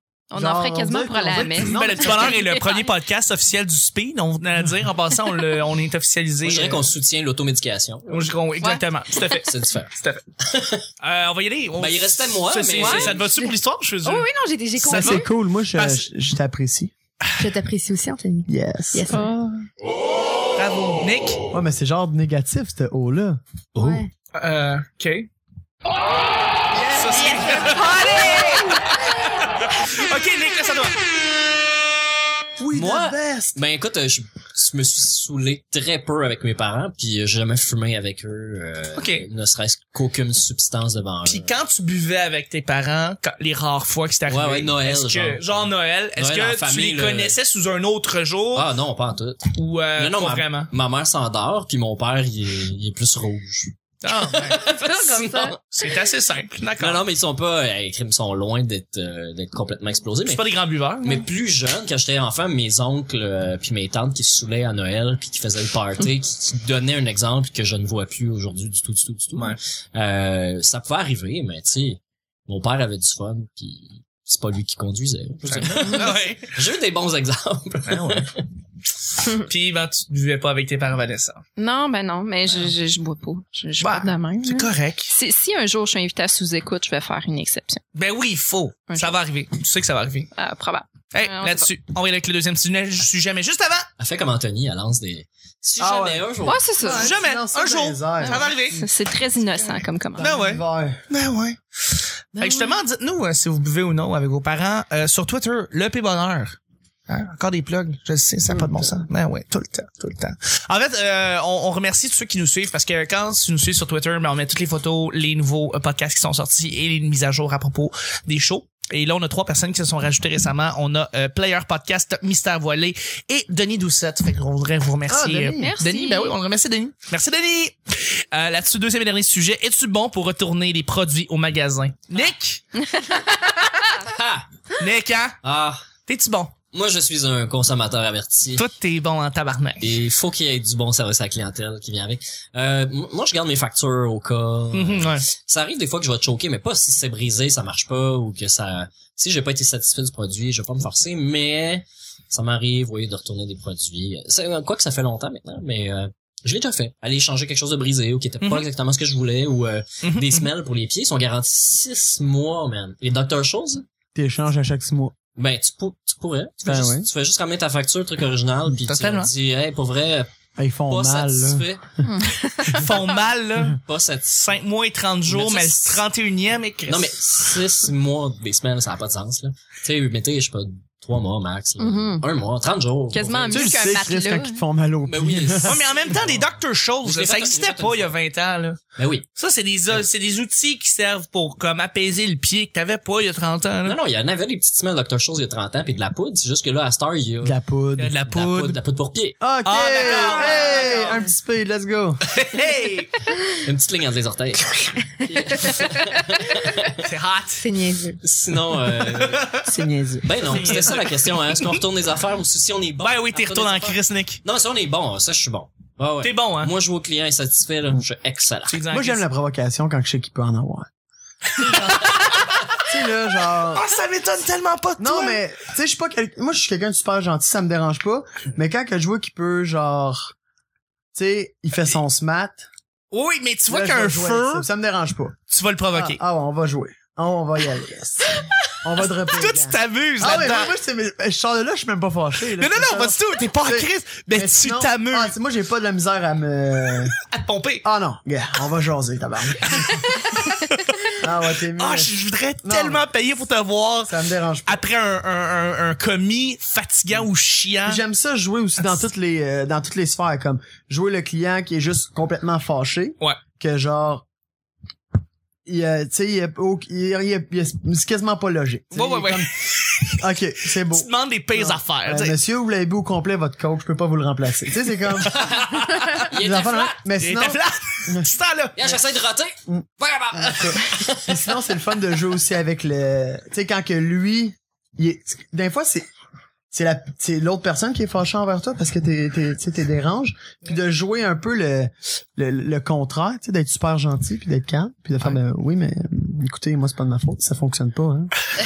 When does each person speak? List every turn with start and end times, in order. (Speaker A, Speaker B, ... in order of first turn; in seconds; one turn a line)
Speaker A: 0.3-2.9
Speaker B: 0.3-2.3
Speaker C: 1.3-6.8
Speaker D: 6.4-8.3
Speaker C: 8.1-10.2
Speaker D: 9.4-10.8
Speaker C: 11.0-14.3
Speaker D: 11.8-13.2
Speaker E: 12.8-15.3
Speaker A: 12.8-13.1
Speaker B: 14.8-16.9
Speaker C: 14.8-16.1
Speaker E: 17.4-19.6
Speaker B: 18.5-19.1
Speaker C: 20.6-21.4
Speaker B: 21.5-24.0
Speaker E: 23.8-24.1
Speaker C: 24.3-25.3
Speaker B: 26.7-28.1
Speaker C: 26.9-31.0
Speaker E: 27.3-28.8
Speaker B: 32.6-33.6
Speaker D: 32.7-41.5
Speaker C: 39.0-39.2
Speaker C: 41.2-48.7
Speaker D: 44.3-47.4
Speaker D: 48.5-55.6
Speaker C: 49.5-50.7
Speaker C: 54.0-54.6
Speaker E: 54.5-55.5
Speaker C: 55.7-57.0
Speaker D: 56.8-60.4
Speaker C: 60.2-61.2
Speaker D: 61.0-78.4
Speaker C: 75.4-76.6
Speaker C: 77.9-78.3
Speaker C: 79.2-81.4
Speaker A: 81.6-87.8
Speaker C: 83.8-85.1
Speaker C: 87.9-90.3
Speaker A: 88.9-89.2
Speaker A: 90.3-91.7
Speaker C: 91.1-93.9
Speaker D: 94.0-96.6
Speaker B: 95.8-98.5
Speaker A: 96.4-97.1
Speaker C: 96.9-98.8
Speaker A: 98.2-100.3
Speaker B: 100.1-101.0
Speaker C: 100.2-106.6
Speaker C: 107.1-132.7
Speaker B: 108.5-108.9
Speaker B: 125.1-125.7
Speaker A: 125.6-126.3
Speaker A: 132.8-133.3
Speaker D: 134.0-134.5
Speaker C: 134.8-135.4
Speaker D: 135.4-135.8
Speaker C: 136.1-136.5
Speaker D: 136.7-138.7
Speaker C: 138.6-139.9
Speaker D: 139.8-163.8
Speaker C: 144.7-145.3
Speaker C: 158.4-158.7
Speaker C: 160.0-160.5
Speaker B: 164.1-165.1
Speaker D: 165.4-170.3
Speaker B: 166.6-167.1
Speaker C: 168.8-169.3
Speaker B: 170.6-171.7
Speaker D: 170.9-171.9
Speaker A: 172.0-173.2
Speaker C: 172.6-177.6
Speaker D: 173.7-174.4
Speaker D: 175.3-176.0
Speaker D: 176.9-183.8
Speaker A: 181.8-182.2
Speaker A: 183.1-184.6
Speaker B: 183.5-185.8
Speaker D: 185.0-188.1
Speaker C: 185.6-188.8
Speaker D: 188.9-189.3
Speaker C: 189.3-194.0
Speaker D: 193.8-197.6
Speaker B: 197.4-198.2
Speaker C: 198.0-198.8
Speaker D: 198.3-199.4
Speaker B: 199.4-202.2
Speaker C: 199.6-201.3
Speaker C: 202.3-203.1
Speaker D: 203.6-207.0
Speaker C: 207.0-207.7
Speaker E: 207.6-208.2
Speaker D: 208.2-209.6
Speaker C: 209.0-209.7
Speaker B: 209.7-210.8
Speaker D: 210.2-218.8
Speaker C: 210.4-211.7
Speaker C: 213.0-214.4
Speaker C: 216.2-216.7
Speaker C: 218.7-219.2
Speaker B: 218.9-220.9
Speaker C: 221.5-222.8
Speaker B: 221.6-222.1
Speaker B: 222.8-223.9
Speaker C: 223.7-225.4
Speaker B: 225.0-230.3
Speaker B: 231.1-232.7
Speaker C: 233.1-234.7
Speaker B: 233.7-235.3
Speaker C: 235.5-236.2
Speaker B: 235.9-247.1
Speaker C: 239.2-240.7
Speaker C: 242.6-245.3
Speaker C: 247.3-247.8
Speaker B: 247.8-250.0
Speaker C: 249.7-251.2
Speaker B: 251.2-253.1
Speaker C: 251.7-258.0
Speaker B: 254.1-254.8
Speaker B: 257.8-264.2
Speaker B: 265.6-275.5
Speaker C: 268.9-270.2
Speaker C: 270.9-272.4
Speaker D: 275.3-277.0
Speaker C: 275.4-276.3
Speaker B: 276.3-278.3
Speaker C: 277.2-278.9
Speaker D: 278.8-281.4
Speaker B: 279.7-286.1
Speaker B: 286.7-298.3